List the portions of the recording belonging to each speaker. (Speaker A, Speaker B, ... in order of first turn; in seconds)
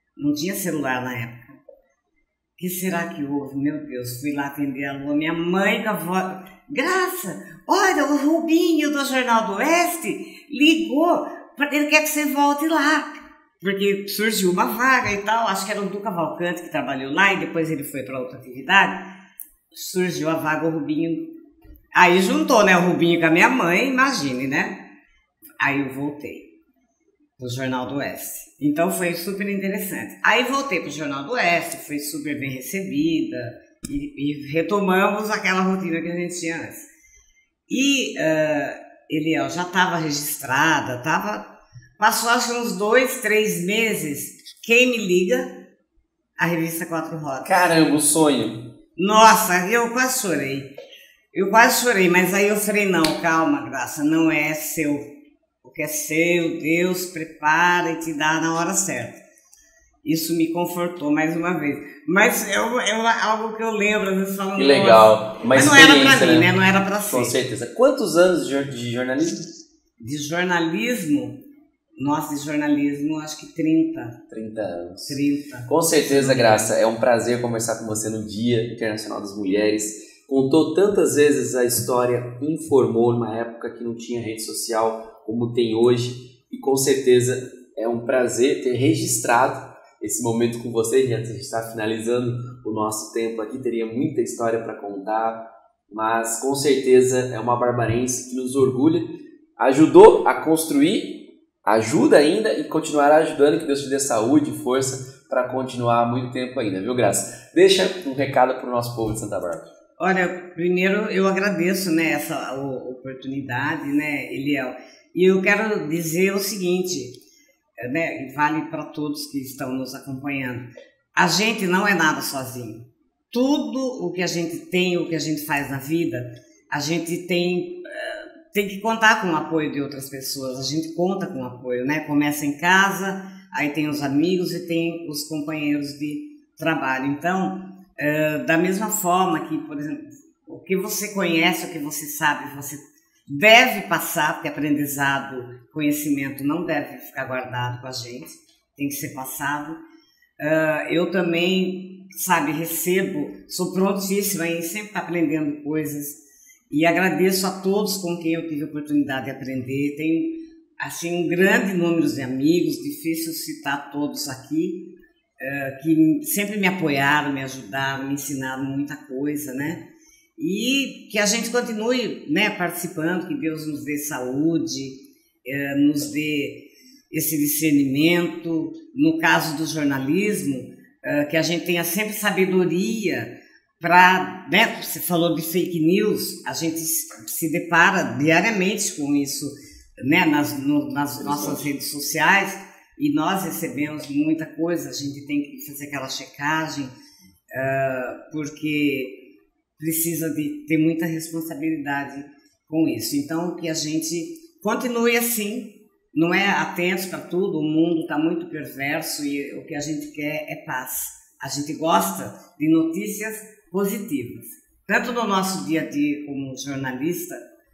Speaker A: 0.2-1.6, 2.6-19.1, 19.7-21.3, 21.9-24.8, 25.6-26.5, 27.4-36.9, 37.7-41.5, 42.0-45.5, 46.4-47.5, 49.0-50.7, 51.3-55.0, 55.6-59.2, 60.0-67.3, 70.0-71.4, 72.0-74.2, 75.0-76.7, 110.0-117.1, 117.8-149.8, 150.4-169.8, 170.4-196.9, 197.5-199.2, 199.8-217.4
Speaker B: 47.4-48.6, 64.5-66.5, 67.1-69.5, 74.3-109.7, 191.2-191.6